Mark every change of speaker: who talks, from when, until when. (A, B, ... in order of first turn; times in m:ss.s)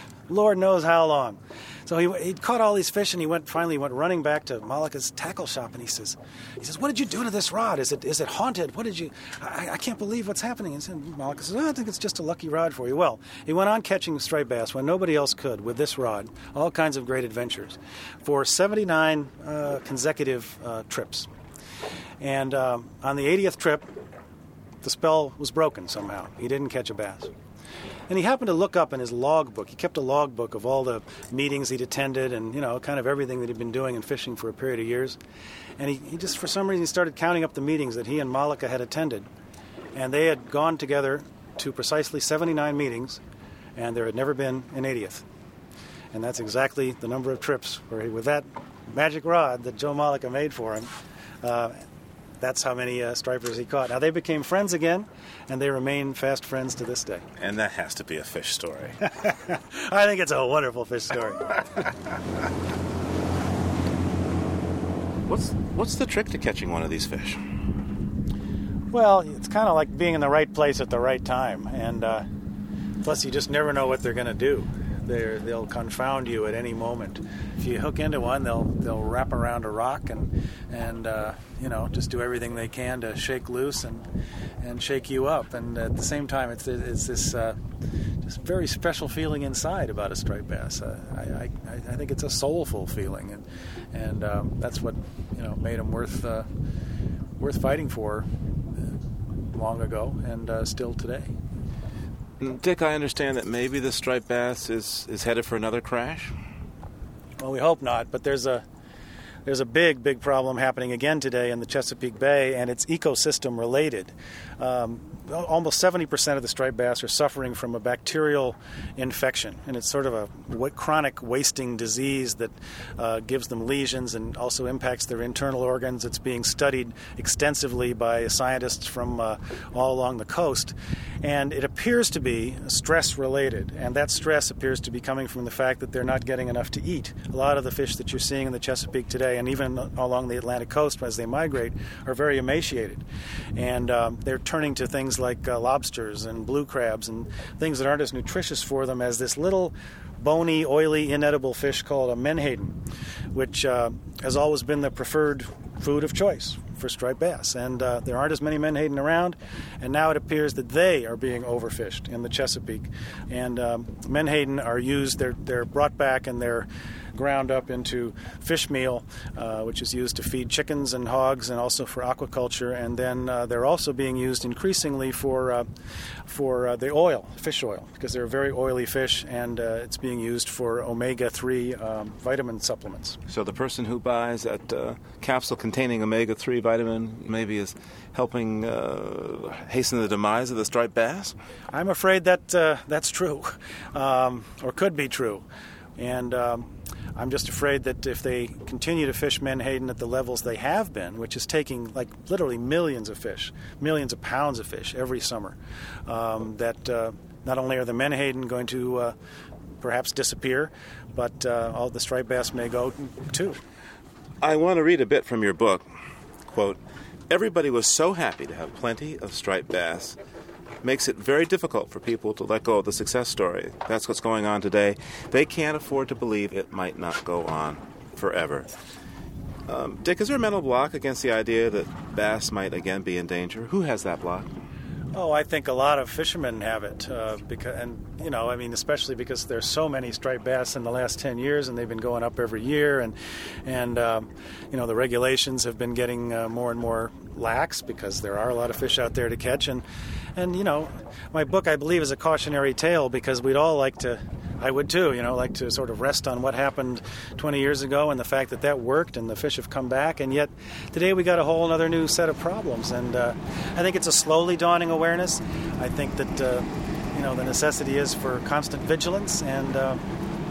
0:00.3-0:21.3 A
0:22.2-0:23.9 A
0:24.8-0:27.3 A
0:28.1-0:35.2 A
0:35.8-0:39.3 A
0:39.9-0:43.2 A
0:43.8-0:45.2 A
0:46.1-0:50.9 A
0:51.4-0:51.8 A
0:52.4-0:57.2 A
0:57.4-0:59.0 B
0:59.3-1:01.5 A
1:05.3-1:07.4 B
1:08.9-1:12.2 A
1:13.0-1:24.0 A
1:24.6-1:27.6 A
1:28.2-1:36.5 A
1:37.4-1:38.3 A
1:39.5-1:41.3 A
1:42.4-1:46.3 B
1:47.4-1:48.6 A
1:49.4-2:23.0 A
2:23.5-2:32.8 A
2:33.3-2:55.7 A
2:56.3-3:03.2 A
3:03.3-3:11.4 B
3:11.7-3:15.4 A
3:16.0-3:29.1 A
3:29.8-3:33.6 A
3:34.4-3:35.9 B
3:36.4-3:36.8 B
3:37.3-3:40.2 B
3:40.8-3:48.7 B
3:49.7-3:54.5 B
3:55.1-4:09.8 A
4:10.4-4:30.0 A